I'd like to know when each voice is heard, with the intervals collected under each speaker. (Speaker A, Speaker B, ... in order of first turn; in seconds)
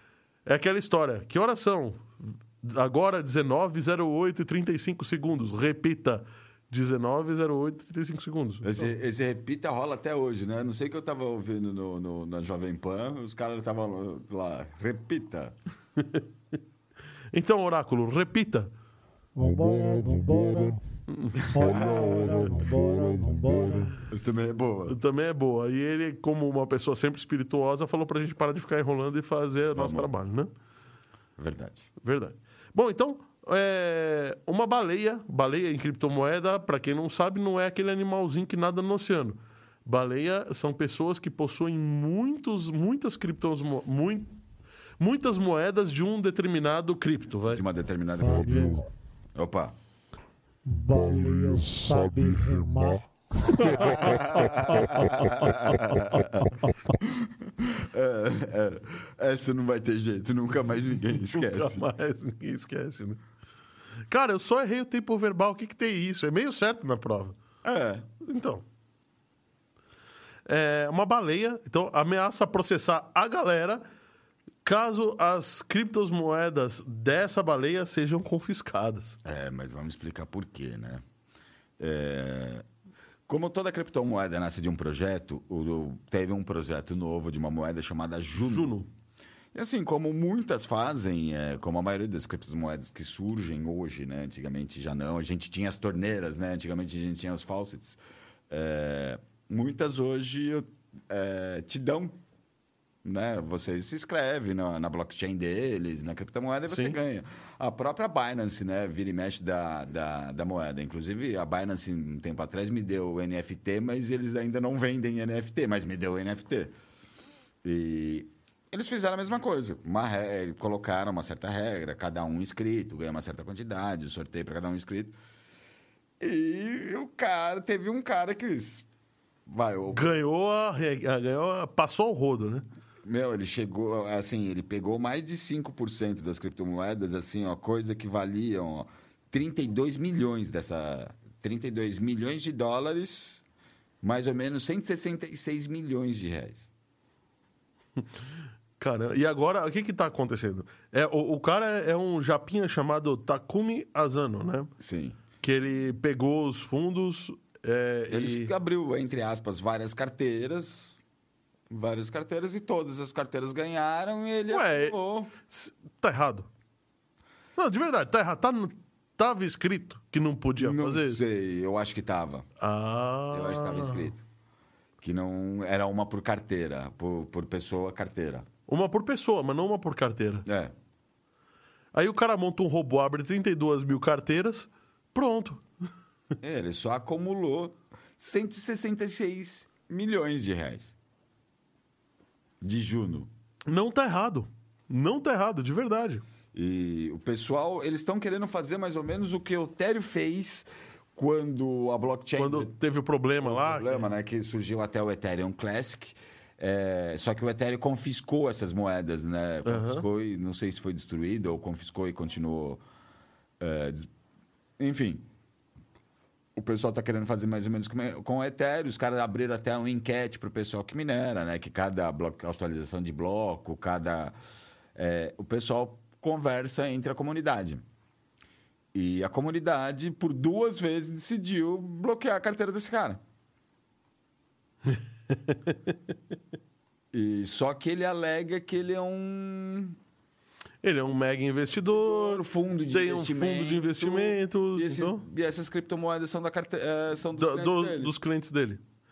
Speaker A: 0.5-8.8, 16.0-16.2, 17.3-18.7, 21.1-21.5, 24.9-30.5, 32.0-44.3, 45.0-47.6, 61.2-63.2, 64.1-67.4, 68.2-68.6, 70.5-73.8, 74.6-79.2, 88.4-88.9, 106.7-107.0, 129.9-132.7, 148.8-154.7, 155.4-158.5, 164.5-166.5, 167.6-171.2, 172.6-174.1, 178.7-180.4, 181.9-185.6, 193.7-196.2, 202.4-204.1, 209.7-210.0, 234.9-235.9, 240.8-245.2, 247.4-248.8
Speaker B: 8.6-15.5, 21.4-22.5, 24.1-25.0, 29.7-30.1, 31.4-31.9, 47.5-48.8, 49.3-49.7, 53.8-56.5, 57.0-61.8, 67.6-68.0, 79.2-81.0, 81.8-82.6, 83.3-88.7, 89.5-98.0, 98.5-102.2, 103.0-116.7, 117.6-125.1, 126.2-128.8, 129.5-130.1, 133.1-143.4, 144.0-146.7, 154.8-155.2, 158.1-160.9, 161.7-165.3, 170.6-172.5, 173.3-174.2, 175.0-178.4, 180.4-180.7, 186.4-190.9, 192.6-193.3, 196.5-202.7, 203.4-212.8, 213.6-214.1, 214.8-215.2, 216.6-224.3, 224.9-227.8, 228.9-233.2, 237.1-239.9, 241.8-248.1
Speaker C: 19.3-20.8, 21.4-24.1, 48.1-48.9, 50.6-55.5